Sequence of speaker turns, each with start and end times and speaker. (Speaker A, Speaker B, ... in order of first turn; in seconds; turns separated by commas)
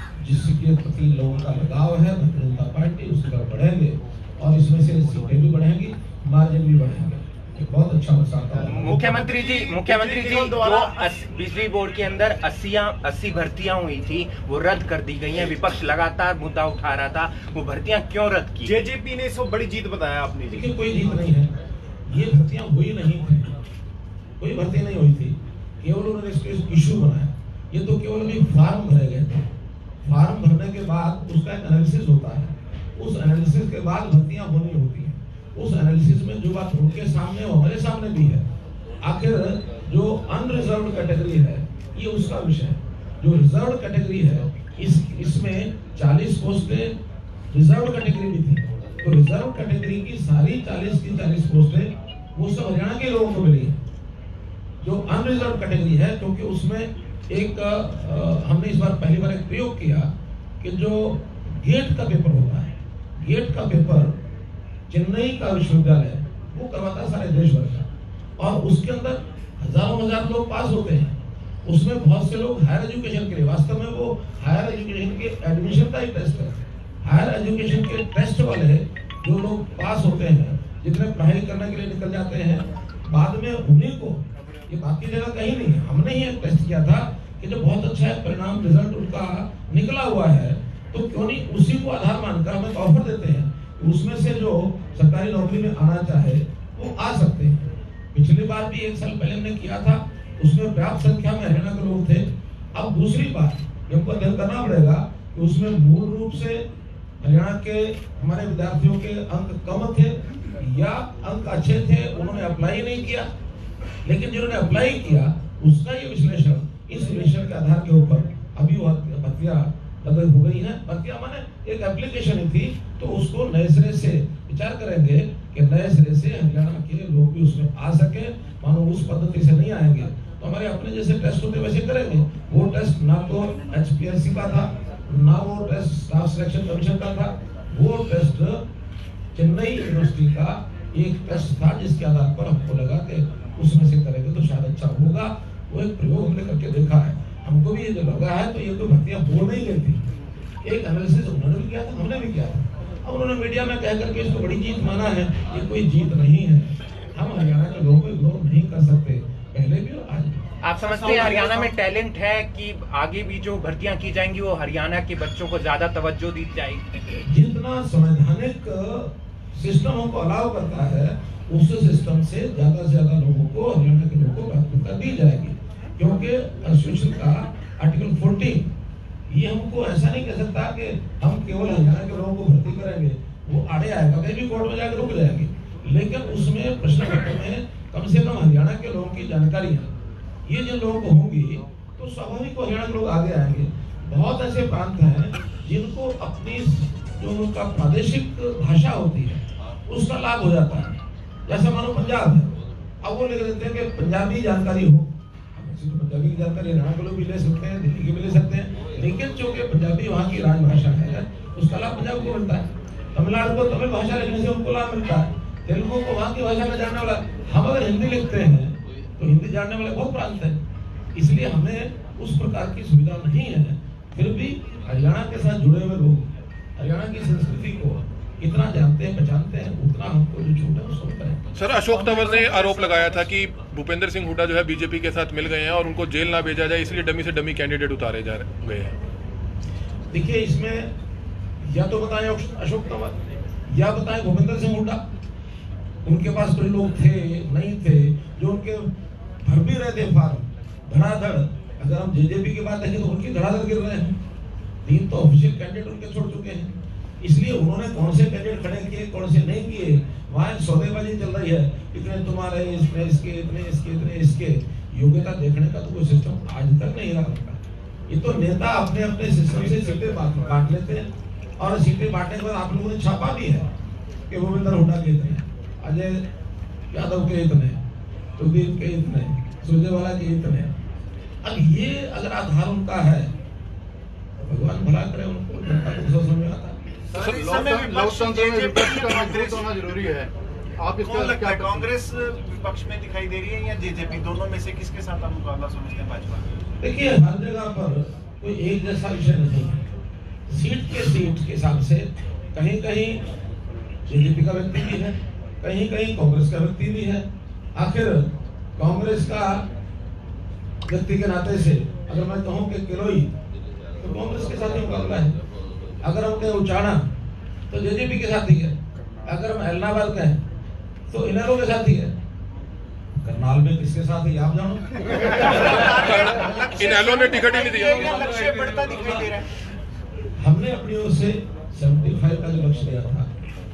Speaker A: 0.2-9.1, Speaker B: 8.7-18.8, Speaker C: 8.8-10.9, Speaker C: 18.6-20.7, Speaker A: 20.5-21.5, Speaker A: 22.1-23.5, Speaker A: 24.4-29.5, Speaker A: 30.0-38.5, Speaker A: 39.0-47.0, Speaker A: 47.5-53.8, Speaker A: 54.8-64.2, Speaker A: 64.9-67.9, Speaker A: 68.4-106.6, Speaker A: 107.2-113.3, Speaker A: 114.0-138.6, Speaker A: 139.3-150.1, Speaker A: 150.6-160.4, Speaker B: 160.6-167.0, Speaker D: 160.9-161.8, Speaker A: 167.2-178.7, Speaker A: 179.3-189.9, Speaker A: 190.5-220.6, Speaker A: 221.1-231.4, Speaker E: 231.5-238.9, Speaker A: 240.1-240.9, Speaker A: 241.6-243.2, Speaker A: 243.7-245.0, Speaker A: 246.0-248.9, Speaker A: 249.4-254.2, Speaker A: 254.8-273.7, Speaker A: 274.3-276.2, Speaker A: 276.9-277.8, Speaker A: 278.4-280.7, Speaker A: 281.4-283.3, Speaker A: 284.4-286.8, Speaker D: 287.1-289.8, Speaker C: 287.1-289.6, Speaker F: 287.2-291.8, Speaker C: 291.0-291.8, Speaker D: 291.0-296.5, Speaker A: 296.8-299.8, Speaker A: 300.5-303.2, Speaker A: 304.1-309.6, Speaker A: 310.9-313.3, Speaker A: 314.0-315.4, Speaker A: 316.0-317.1, Speaker A: 317.7-320.4, Speaker A: 321.1-322.1, Speaker A: 323.2-326.1, Speaker D: 325.8-329.5, Speaker E: 326.0-328.5, Speaker A: 330.4-333.3